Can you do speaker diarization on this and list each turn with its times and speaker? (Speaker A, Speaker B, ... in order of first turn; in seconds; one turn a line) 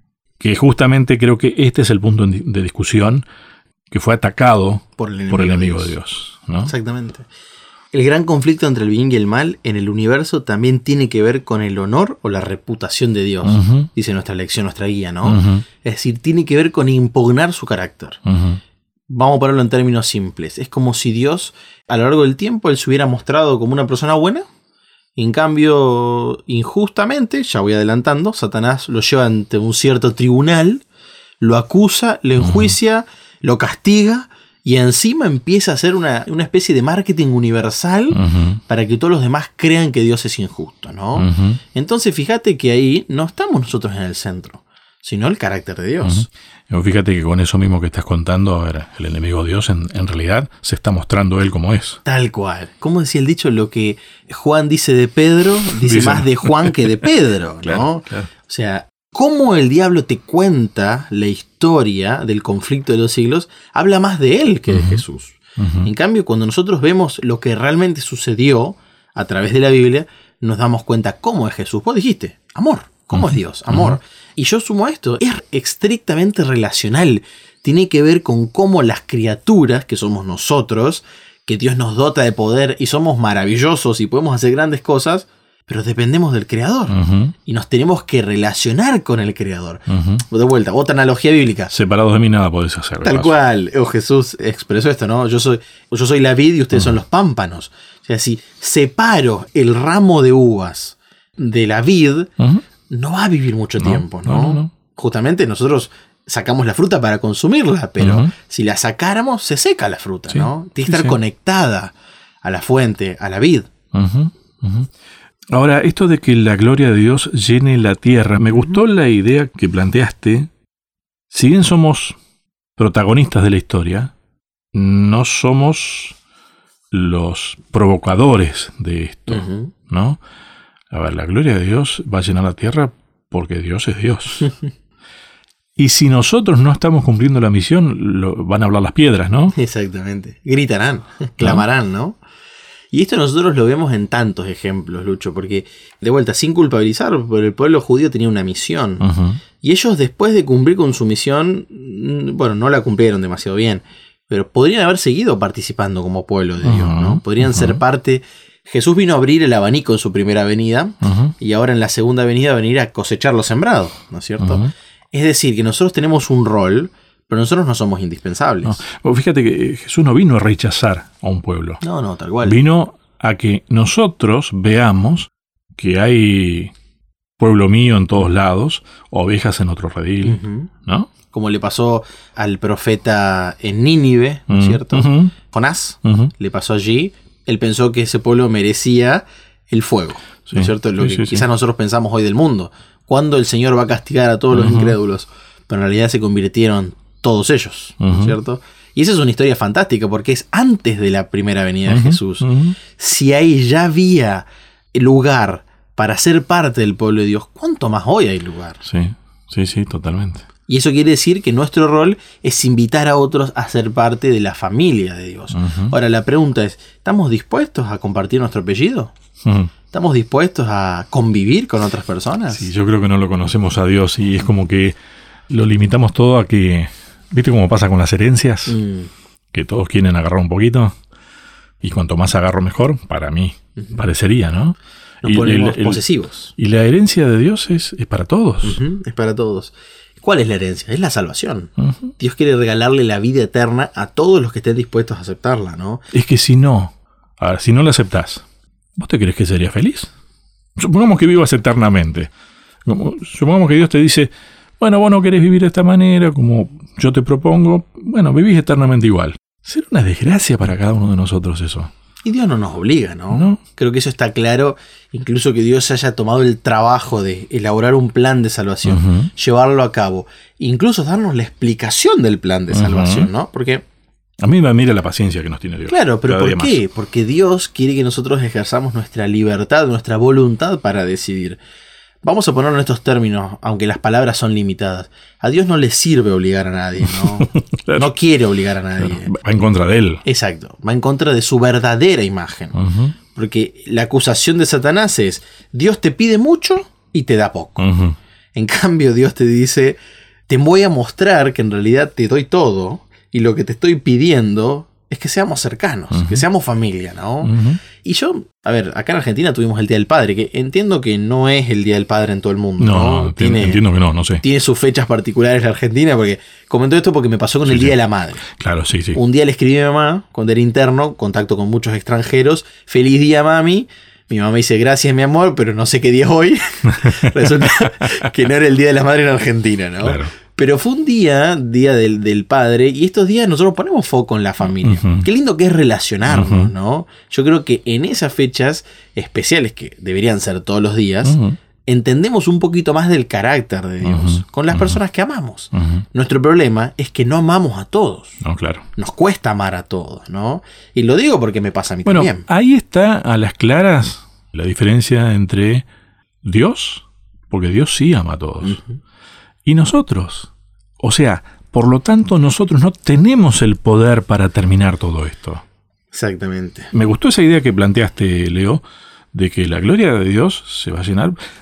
Speaker A: 0.4-3.2
Speaker A: 3.9-6.7
Speaker B: 5.0-5.9
Speaker B: 6.6-7.2
Speaker B: 7.9-18.2
Speaker A: 13.4-13.9
Speaker A: 15.2-15.7
Speaker A: 18.3-18.6
Speaker B: 19.1-24.5
Speaker B: 25.2-30.8
Speaker B: 31.4-46.3
Speaker A: 32.4-32.8
Speaker A: 38.1-38.6
Speaker A: 41.2-41.6
Speaker A: 46.0-52.0
Speaker B: 52.0-91.7
Speaker A: 55.7-57.0
Speaker A: 57.6-58.3
Speaker A: 64.7-65.0
Speaker A: 65.6-65.9
Speaker A: 73.1-74.0
Speaker A: 86.9-87.3
Speaker A: 89.9-90.2
Speaker A: 91.7-93.3
Speaker B: 93.0-102.3
Speaker B: 102.9-113.7
Speaker A: 103.8-104.7
Speaker A: 108.0-108.3
Speaker A: 110.3-111.2
Speaker A: 113.9-114.9
Speaker A: 115.5-120.5
Speaker A: 121.3-122.2
Speaker A: 122.8-124.1
Speaker A: 124.7-126.2
Speaker A: 126.9-130.2
Speaker B: 129.3-129.7
Speaker A: 130.9-134.5
Speaker A: 135.8-139.5
Speaker B: 139.5-142.2
Speaker B: 142.9-149.1
Speaker A: 149.0-149.4
Speaker B: 149.6-168.8
Speaker A: 156.6-157.8
Speaker A: 161.0-161.3
Speaker A: 164.4-164.7
Speaker A: 168.6-171.8
Speaker B: 171.8-172.6
Speaker A: 172.4-176.7
Speaker A: 177.4-181.1
Speaker B: 180.2-180.7
Speaker B: 181.3-208.8
Speaker A: 184.5-185.3
Speaker A: 186.1-186.3
Speaker A: 190.5-191.5
Speaker A: 194.5-195.0
Speaker A: 198.0-198.3
Speaker A: 201.9-202.8
Speaker A: 208.8-210.5
Speaker B: 210.7-219.1
Speaker A: 215.5-215.9
Speaker A: 219.4-219.7
Speaker B: 219.9-222.7
Speaker A: 222.5-224.9
Speaker A: 225.5-228.8
Speaker B: 228.7-229.1
Speaker A: 229.5-230.9
Speaker A: 231.8-236.0
Speaker B: 235.2-236.5
Speaker A: 236.6-238.8
Speaker B: 238.6-246.0
Speaker A: 241.8-242.1
Speaker A: 246.1-248.4
Speaker A: 249.0-250.1
Speaker A: 250.8-252.3
Speaker A: 252.8-261.9
Speaker B: 262.2-273.8
Speaker A: 263.3-263.6
Speaker A: 268.9-269.3
Speaker A: 272.7-273.3
Speaker A: 274.4-276.8
Speaker B: 275.9-281.6
Speaker B: 282.2-289.3
Speaker A: 287.0-288.1
Speaker A: 289.0-290.2
Speaker B: 290.2-292.8
Speaker A: 292.7-293.1
Speaker B: 293.3-297.9
Speaker A: 297.8-298.2
Speaker B: 298.6-313.8
Speaker A: 306.1-306.4
Speaker A: 307.4-307.8
Speaker A: 312.8-314.4
Speaker B: 314.4-318.4
Speaker A: 317.7-319.2
Speaker B: 319.1-348.4
Speaker A: 326.9-328.1
Speaker A: 330.0-330.3
Speaker A: 334.6-335.2
Speaker A: 336.3-336.7
Speaker A: 341.3-341.6
Speaker A: 344.0-345.0
Speaker A: 345.8-346.0
Speaker A: 348.4-348.9
Speaker B: 349.0-352.5
Speaker A: 352.1-355.9
Speaker A: 356.4-358.8
Speaker B: 358.6-359.0
Speaker A: 359.6-365.6
Speaker B: 366.1-366.9
Speaker A: 366.9-371.4